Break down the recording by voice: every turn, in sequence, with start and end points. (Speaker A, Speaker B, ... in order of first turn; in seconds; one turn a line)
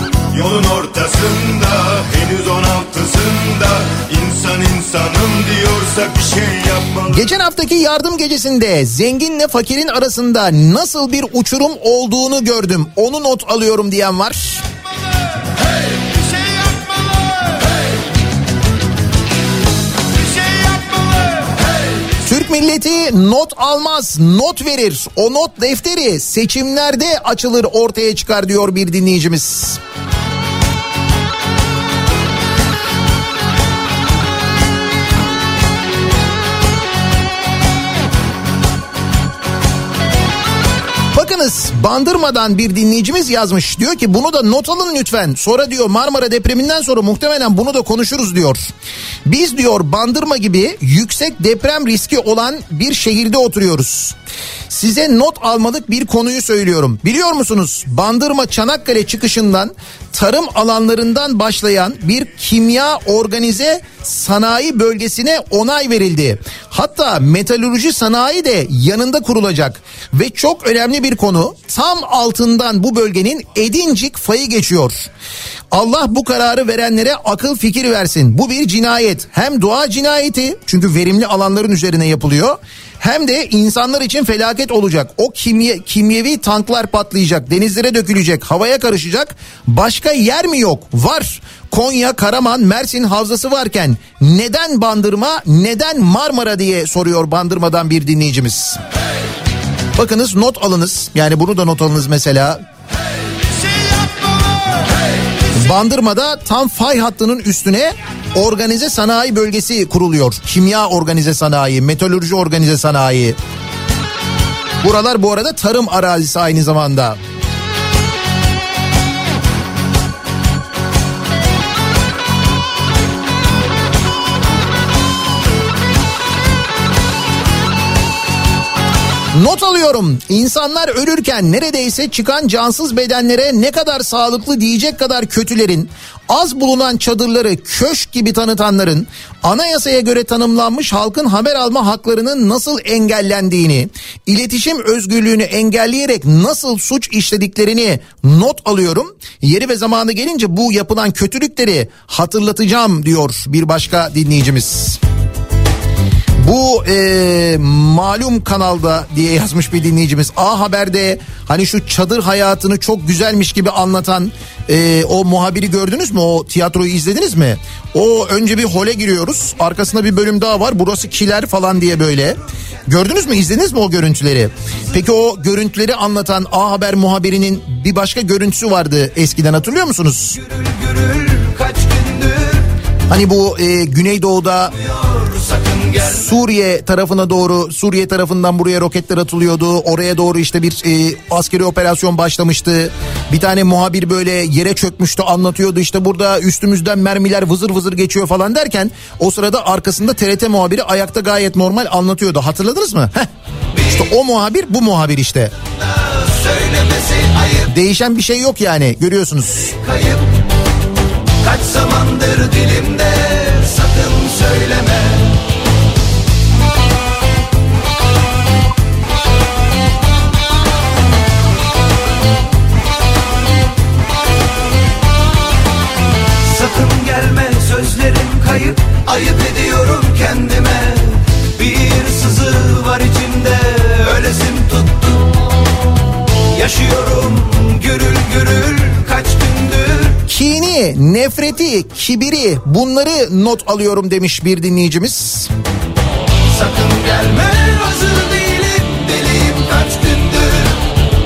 Speaker A: 0.3-7.2
Speaker B: 7.1-14.6
Speaker B: 22.3-29.8
Speaker B: 41.1-48.7
Speaker B: 49.3-54.2
Speaker B: 54.7-75.1
Speaker B: 75.7-98.8
Speaker B: 100.0-102.6
Speaker B: 105.5-113.4
Speaker B: 114.8-117.2
Speaker B: 129.3-155.0
Speaker B: 156.4-180.4
Speaker C: 180.4-182.7
Speaker B: 183.1-184.7
Speaker C: 185.0-186.2
Speaker B: 186.1-203.3
Speaker B: 203.9-205.5
Speaker C: 206.1-207.6
Speaker B: 207.7-209.8
Speaker C: 209.8-210.2
Speaker C: 211.4-215.3
Speaker C: 226.4-235.2
Speaker C: 236.5-240.2
Speaker B: 240.3-245.5
Speaker C: 246.5-250.8